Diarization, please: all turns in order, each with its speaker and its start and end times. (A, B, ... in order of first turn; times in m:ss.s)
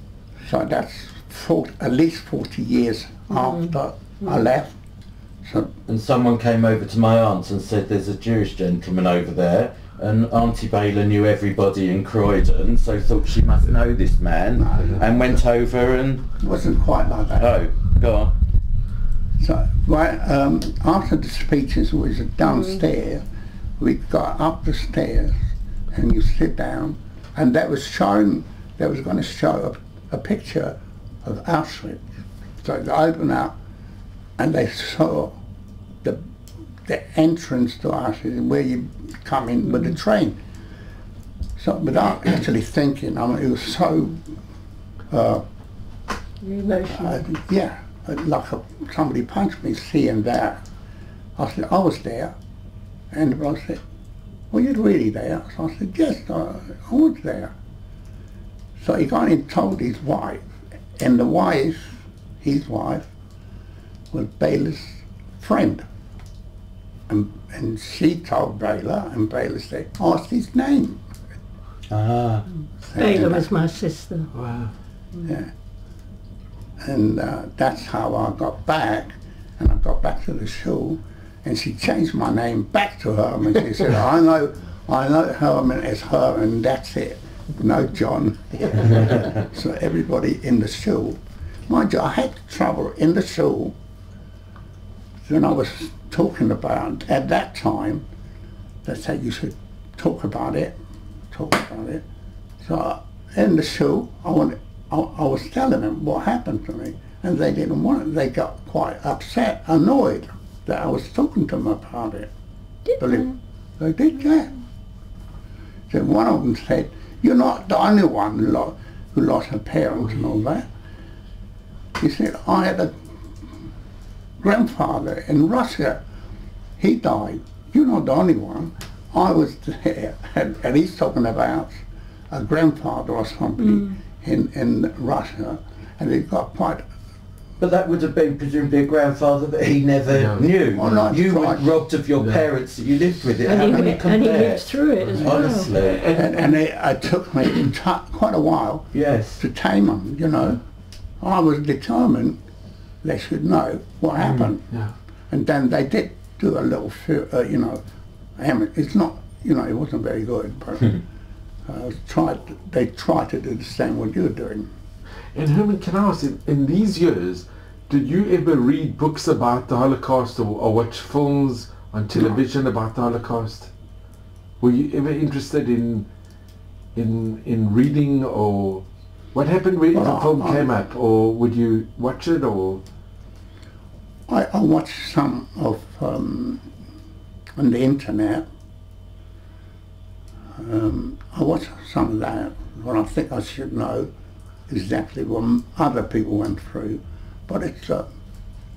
0:00.4-0:04.8 A
0:03.3-0:03.7 B
0:05.4-0:05.7 A
0:05.9-0:16.3 C
0:14.6-0:15.2 A
0:16.4-0:17.5 A
0:17.4-0:18.3 C
0:19.4-0:23.2 A
0:23.8-0:25.4 A
0:25.9-0:32.0 A
0:32.6-0:33.5 A
0:34.4-0:35.4 A
0:36.0-0:36.3 A
0:36.8-0:40.4 A
0:41.6-0:44.3 A
0:45.1-0:45.4 A
0:46.4-0:47.2 B
0:46.9-0:50.6 A
0:51.4-0:52.4 A
0:53.1-0:53.8 A
0:54.5-0:57.5 A
0:58.8-1:00.4 A
1:01.0-1:03.1 A
1:04.1-1:05.8 A
1:07.1-1:11.0 A
1:11.9-1:12.4 C
1:12.8-1:13.5 A
1:13.0-1:14.3 B
1:14.3-1:14.7 D
1:15.2-1:15.5 A
1:16.8-1:33.8 A
1:35.2-1:38.0 A
1:38.8-1:40.7 A
1:41.3-1:42.0 A
1:42.6-1:52.3 A
1:52.9-1:53.3 B
1:53.0-1:54.5 A
1:55.9-2:00.7 A
2:02.0-2:03.0 A
2:04.4-2:06.0 A
2:06.8-2:16.8 A
2:13.6-2:14.0 B
2:17.6-2:26.2 C
2:20.1-2:20.5 D
2:20.8-2:21.7 A
2:23.4-2:25.7 B
2:25.0-2:26.5 D
2:26.1-2:30.6 A
2:28.9-2:29.4 C
2:31.2-2:32.4 A
2:33.0-2:34.6 A
2:34.2-2:34.5 C
2:35.3-2:37.8 A
2:38.4-2:41.0 A
2:41.7-2:44.7 A
2:45.3-2:53.7 D
2:54.6-2:56.1 D
2:56.9-3:02.8 D
2:59.9-3:00.7 A
3:04.3-3:06.7 A
3:07.6-3:08.4 A
3:10.6-3:14.1 A
3:14.7-3:18.1 A